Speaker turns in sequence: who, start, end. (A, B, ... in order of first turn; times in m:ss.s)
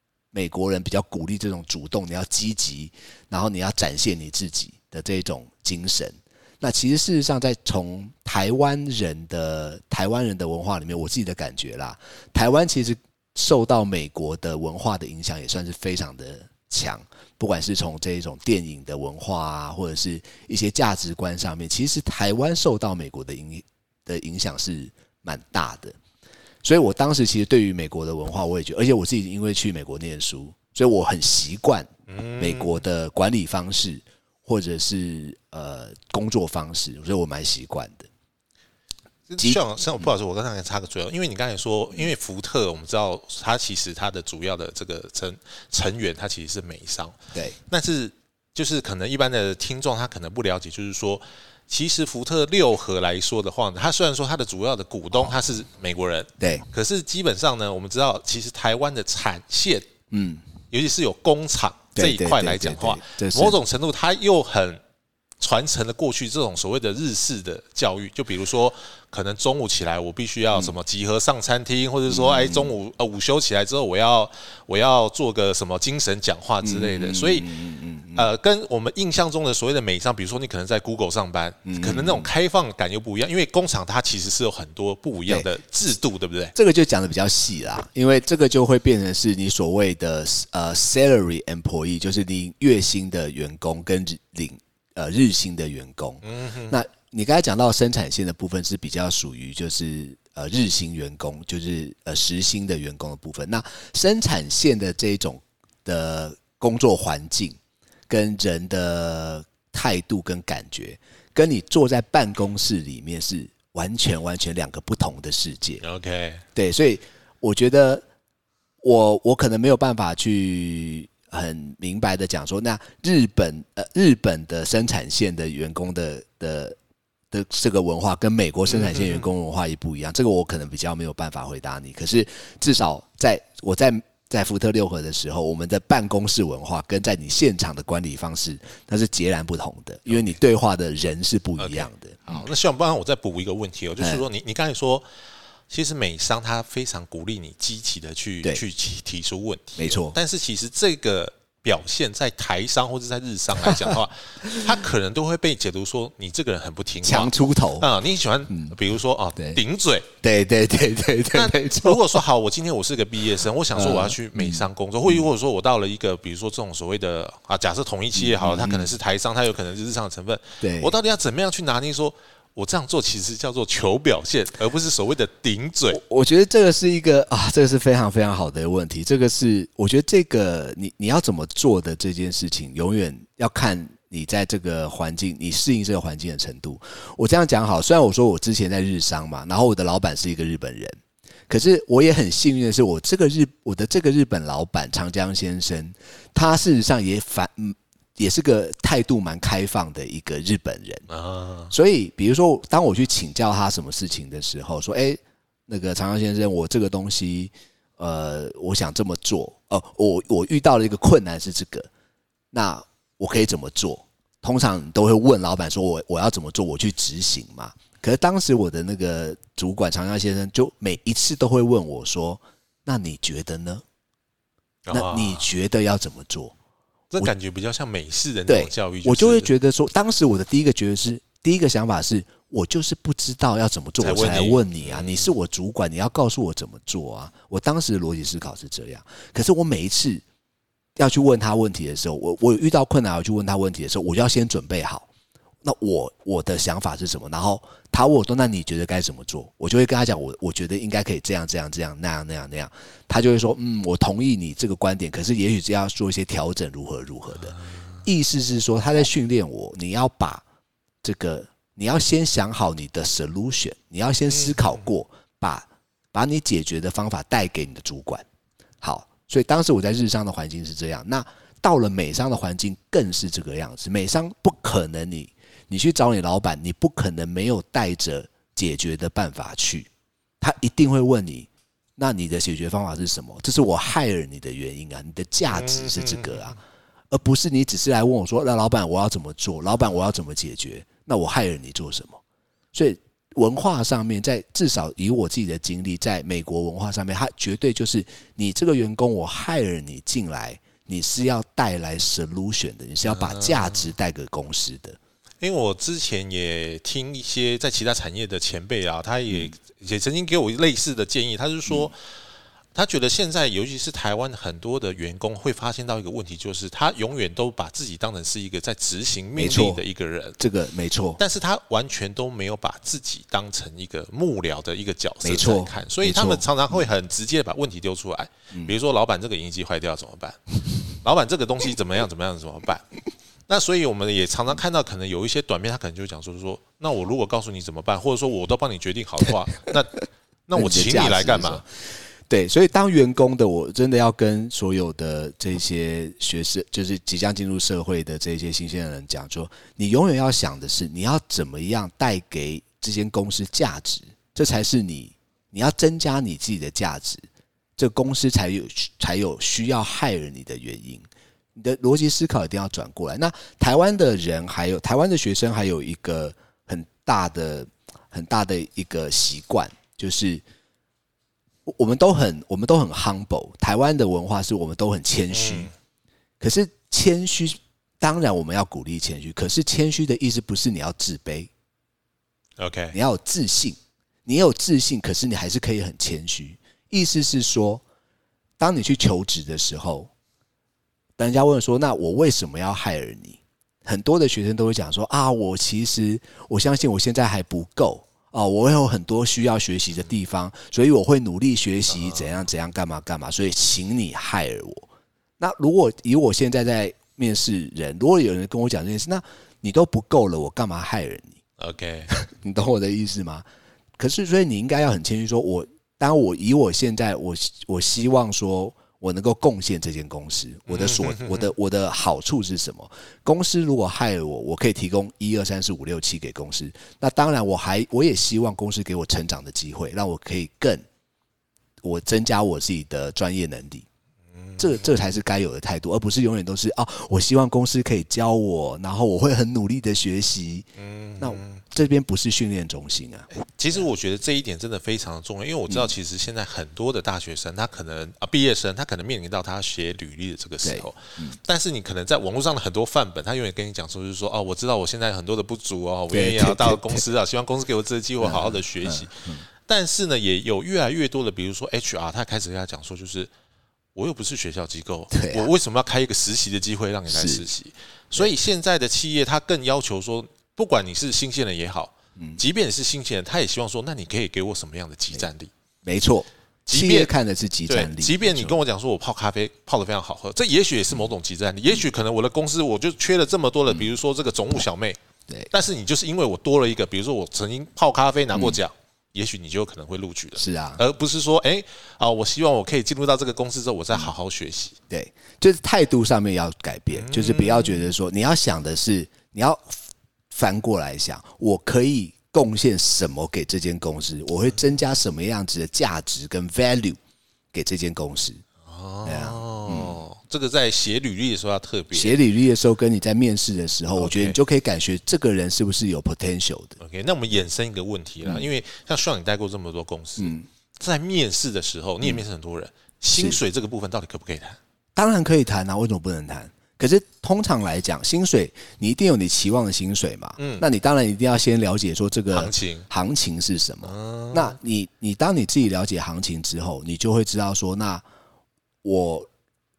0:00.3-0:26.0 A
0:26.6-0:38.1 A
0:32.1-0:32.8 B
0:39.3-0:47.2 B
0:39.4-0:40.1 A
0:47.7-0:59.9 B
0:56.4-0:56.6 A
1:00.1-1:00.4 A
1:00.7-1:04.8 B
1:02.0-1:03.6 A
1:05.4-1:17.5 B
1:12.1-1:12.8 A
1:16.6-1:18.3 A
1:18.2-1:26.6 B
1:21.6-1:22.3 A
1:26.6-1:47.6 A
1:36.2-1:36.8 B
1:48.1-1:55.8 A
1:55.8-1:56.4 B
1:56.6-1:58.0 A
1:58.8-2:06.8 A
2:07.3-2:22.5 A
2:08.7-2:09.3 B
2:20.1-2:20.4 B
2:21.6-2:25.0 B
2:25.7-2:40.1 B
2:29.8-2:30.2 A
2:33.7-2:33.9 A
2:37.0-2:37.9 A
2:38.5-2:38.8 A
2:40.2-2:42.2 A
2:41.3-2:56.0 B
2:43.8-2:45.3 A
2:48.2-2:48.9 A
2:50.6-2:50.9 A
2:55.9-3:11.0 A
3:11.5-3:21.0 A
3:21.1-3:21.7 B
3:21.7-3:31.9 A
3:32.5-3:43.8 A
3:44.9-3:45.5 B
3:44.9-3:46.6 A
3:47.1-3:49.5 B
3:48.5-4:00.2 A
3:54.0-3:55.3 B
4:01.0-4:05.1 A
4:05.6-4:20.4 A
4:17.5-4:17.8 B
4:21.0-4:28.3 A
4:24.3-4:24.8 B
4:28.8-4:39.9 A
4:40.4-4:46.6 A
4:45.5-4:46.6 B
4:47.1-4:52.2 A
4:52.7-5:05.0 A
5:03.0-5:03.9 B
5:05.4-5:12.0 B
5:12.7-5:20.4 B
5:19.4-5:19.8 A
5:20.4-5:21.2 A
5:21.2-5:30.4 B
5:25.2-5:26.9 A
5:31.0-5:32.9 B
5:33.5-5:41.6 B
5:40.6-5:57.2 A
5:57.8-6:10.4 A
6:11.7-6:15.7 A
6:15.3-6:15.7 B
6:16.4-6:21.5 A
6:22.6-6:23.0 B
6:22.9-6:27.8 A
6:28.6-6:30.1 A
6:31.2-6:44.9 A
6:41.9-6:42.3 B
6:45.4-6:51.4 A
6:51.6-6:52.1 B
6:52.1-6:53.4 A
6:54.0-7:10.8 A
7:00.7-7:01.5 B
7:11.8-7:13.9 A
7:14.4-7:14.9 B
7:14.6-7:20.7 A
7:20.8-7:21.6 B
7:21.2-7:23.8 A
7:23.4-7:43.3 B
7:30.6-7:31.4 A
7:36.1-7:37.0 A
7:38.2-7:39.4 A
7:44.0-7:55.5 B
7:45.1-7:45.5 A
7:47.1-7:47.4 A
7:55.8-7:58.6 A
7:56.7-7:57.1 B
7:57.7-8:05.0 B
8:05.5-8:14.8 B
8:10.4-8:10.8 A
8:14.9-8:19.8 A
8:16.9-8:17.8 B
8:20.3-8:27.0 A
8:27.5-8:28.4 A
8:28.7-8:32.2 B
8:29.0-8:30.0 A
8:31.9-8:36.8 A
8:34.0-8:34.4 B
8:36.8-8:44.6 B
8:38.2-8:38.5 A
8:40.2-8:40.5 A
8:43.2-8:43.4 A
8:45.0-8:58.0 A
8:50.4-8:50.6 B
8:52.3-8:52.9 B
8:53.8-8:54.6 B
8:58.8-8:59.3 A